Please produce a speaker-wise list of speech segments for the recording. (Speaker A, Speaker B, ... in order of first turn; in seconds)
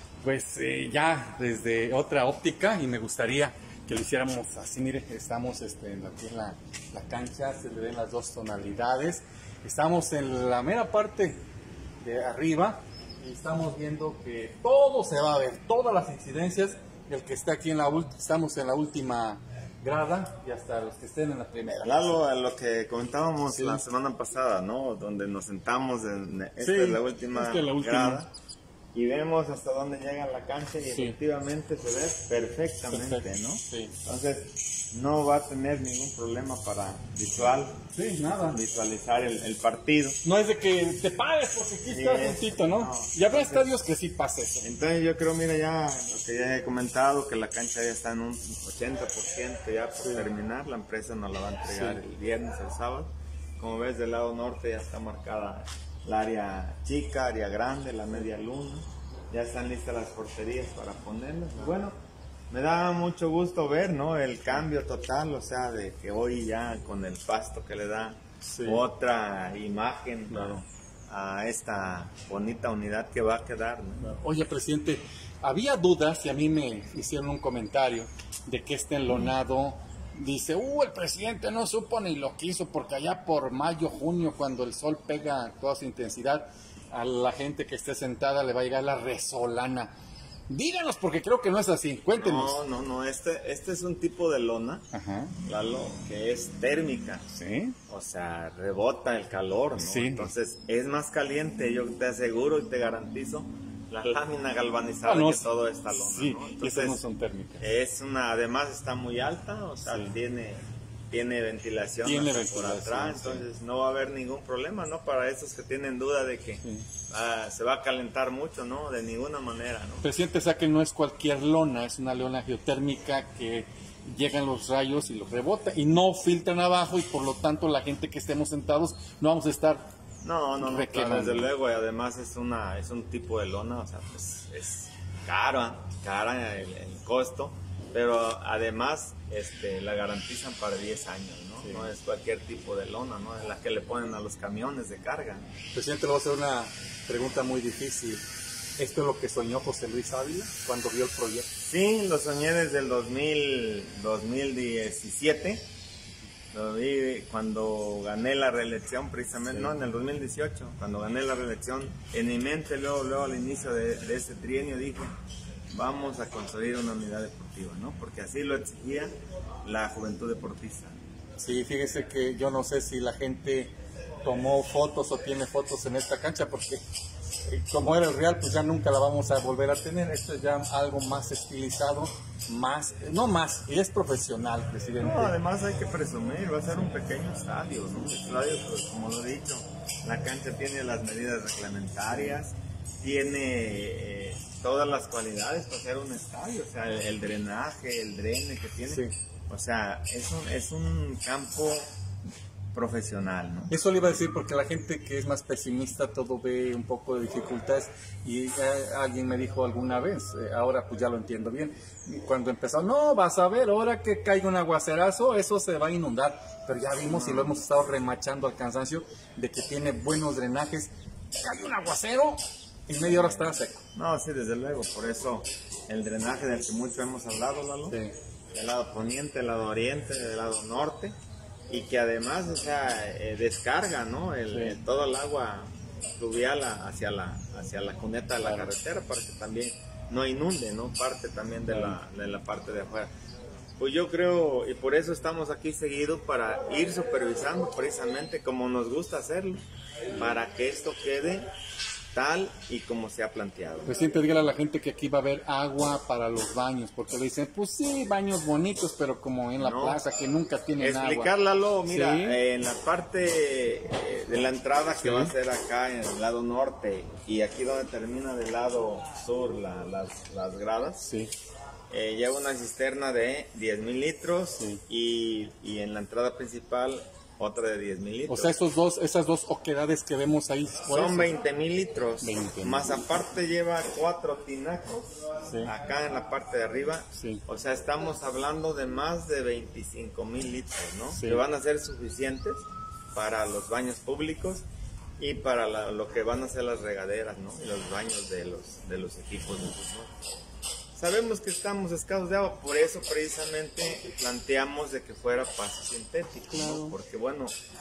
Speaker A: 0.2-11.4, 12.0-22.2, 23.5-23.8, 26.6-28.2, 30.9-31.2, 32.9-34.0, 37.9-38.6, 40.2-44.7, 50.0-50.3, 51.7-52.0, 68.5-68.8, 70.3-70.6, 74.0-89.9, 90.5-92.6, 94.9-95.3, 97.3-97.8, 99.8-100.3, 105.0-105.5, 106.1-107.7, 109.8-110.1, 112.0-113.5, 120.0-129.9, 130.6-131.5, 141.6-141.9, 145.7-148.2, 148.8-151.5, 171.4-176.8, 177.5-185.3, 198.9-199.1, 203.7-220.9, 221.4-223.8, 234.5-234.8, 238.4-238.7, 241.7-242.0, 253.9-261.3, 261.9-262.4, 265.0-265.3, 271.0-271.3, 274.6-274.8, 278.3-281.3, 282.2-282.9, 285.4-285.7, 287.1-287.4, 291.1-291.4, 306.5-307.0
Speaker B: 21.8-28.3, 28.9-37.8, 38.5-40.2, 41.9-43.7, 44.6-62.0, 62.5-74.1, 92.2-94.9, 95.4-97.2, 97.9-107.0, 107.6-120.1, 130.2-145.4, 151.6-155.7, 156.5-165.2, 165.7-171.0, 185.0-201.9, 202.7-203.7, 217.0-217.6, 223.0-228.0, 228.5-231.2, 231.7-243.1, 243.8-249.6, 250.2-251.5, 252.1-254.0, 259.6-260.0, 260.8-271.1, 271.9-278.5, 280.9-294.7, 295.2-300.1, 301.0-307.6